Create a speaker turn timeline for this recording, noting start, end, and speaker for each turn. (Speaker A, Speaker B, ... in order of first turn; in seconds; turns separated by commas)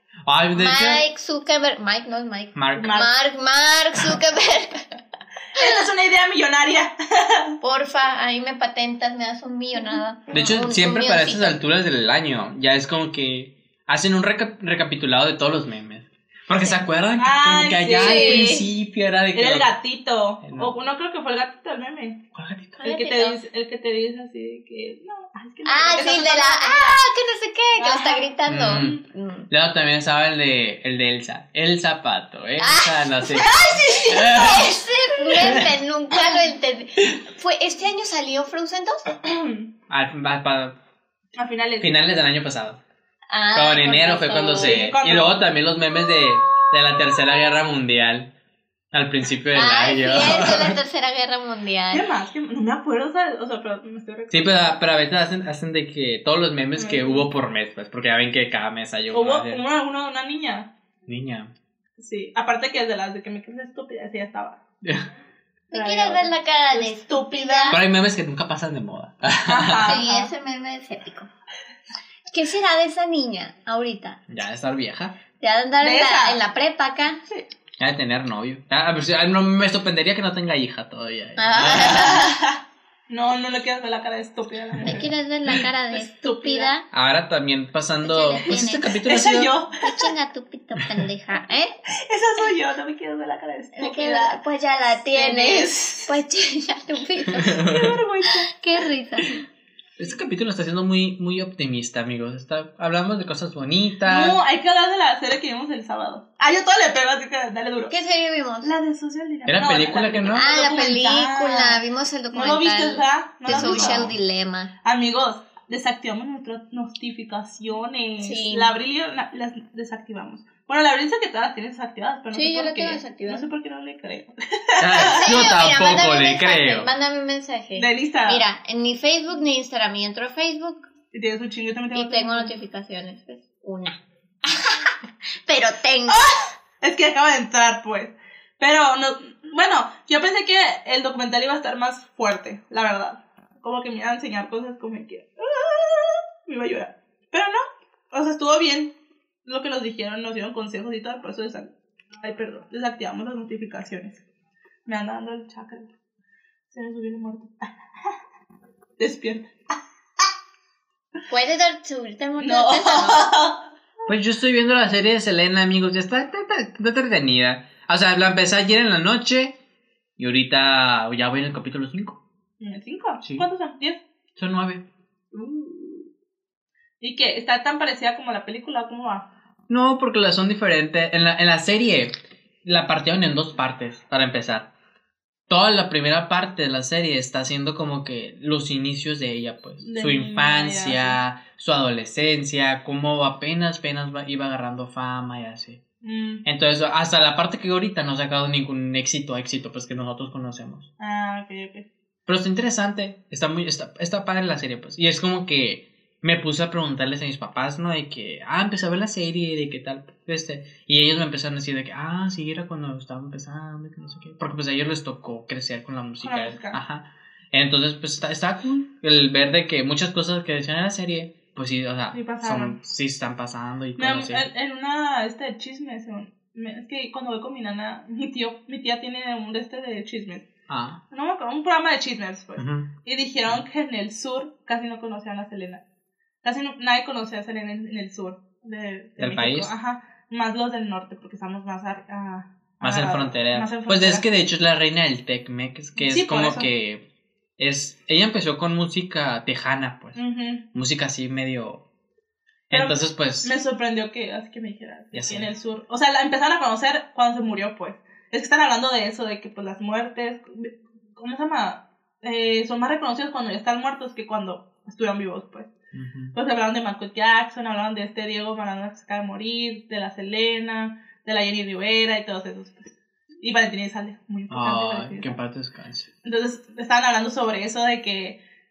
Speaker A: 0.3-1.0, Speaker B: 0.5-4.9, Speaker A: 2.5-2.9, Speaker C: 2.8-3.1, Speaker C: 5.5-7.6, Speaker B: 7.6-11.6, Speaker A: 10.3-19.7, Speaker C: 17.2-18.6, Speaker B: 18.0-18.7, Speaker C: 19.3-22.2, Speaker A: 20.4-20.7, Speaker A: 22.4-22.9, Speaker B: 22.8-23.4, Speaker C: 22.8-27.0, Speaker B: 25.7-29.5, Speaker C: 27.8-28.3, Speaker A: 28.5-34.7, Speaker B: 32.6-39.0, Speaker C: 33.4-34.6, Speaker A: 35.4-35.7, Speaker C: 39.2-39.7, Speaker A: 39.9-40.8, Speaker C: 41.4-41.9, Speaker A: 41.8-42.8, Speaker B: 43.3-44.9, Speaker A: 43.5-48.3, Speaker C: 44.4-45.5, Speaker A: 48.9-50.8, Speaker B: 49.5-52.0, Speaker C: 51.9-54.8, Speaker A: 54.3-59.6, Speaker C: 56.8-57.3, Speaker C: 59.1-60.7, Speaker A: 61.1-61.5, Speaker C: 62.0-64.6, Speaker A: 64.8-65.1, Speaker B: 65.7-67.8, Speaker C: 65.7-67.8, Speaker A: 67.7-70.0, Speaker C: 69.5-70.3, Speaker B: 69.8-71.3, Speaker B: 72.3-74.2, Speaker A: 74.3-75.2, Speaker B: 75.4-77.2, Speaker C: 75.8-76.4, Speaker A: 77.8-82.3, Speaker B: 81.4-82.4, Speaker C: 81.8-86.7, Speaker A: 84.8-85.1, Speaker B: 84.8-86.9, Speaker A: 86.9-89.5, Speaker B: 88.0-89.0, Speaker C: 88.5-90.1, Speaker B: 89.8-91.7, Speaker C: 92.0-94.4, Speaker B: 93.8-97.7, Speaker C: 95.1-96.2, Speaker A: 97.4-98.0, Speaker C: 97.6-98.5, Speaker B: 98.5-99.4, Speaker A: 100.0-104.4, Speaker C: 104.0-107.9, Speaker B: 107.9-108.7, Speaker C: 108.6-111.8, Speaker A: 109.5-110.5, Speaker B: 110.3-114.7, Speaker C: 112.3-114.1, Speaker A: 113.5-114.2, Speaker C: 114.8-125.4, Speaker B: 118.2-118.7, Speaker B: 122.3-123.5, Speaker A: 124.8-126.9, Speaker B: 125.0-130.9, Speaker C: 127.8-128.4, Speaker C: 131.1-132.5, Speaker B: 131.9-134.8, Speaker B: 135.5-136.3, Speaker C: 136.1-148.9, Speaker C: 149.4-154.2, Speaker C: 154.9-155.9, Speaker C: 156.7-157.7, Speaker C: 159.0-159.5, Speaker B: 161.3-163.3, Speaker C: 162.4-163.6, Speaker A: 164.1-169.6, Speaker A: 170.2-172.2, Speaker C: 172.6-174.0, Speaker A: 174.4-174.9, Speaker C: 177.0-179.3, Speaker A: 179.7-184.7, Speaker A: 185.5-195.8, Speaker C: 189.8-191.2, Speaker C: 196.0-196.4, Speaker A: 196.4-200.9, Speaker C: 201.0-201.9, Speaker A: 202.3-224.5, Speaker C: 216.2-216.8, Speaker C: 222.1-222.8, Speaker C: 224.0-230.5, Speaker A: 230.7-231.0, Speaker C: 231.1-235.8, Speaker A: 232.6-232.9, Speaker C: 236.4-244.2, Speaker A: 239.2-239.7, Speaker A: 242.8-247.1, Speaker C: 246.0-246.7, Speaker A: 247.6-250.2, Speaker C: 250.2-250.7, Speaker A: 250.7-251.8, Speaker A: 252.7-253.5, Speaker C: 252.7-265.7, Speaker A: 255.1-255.5, Speaker A: 265.9-266.4, Speaker C: 266.4-275.4, Speaker A: 274.5-276.1, Speaker C: 276.2-278.4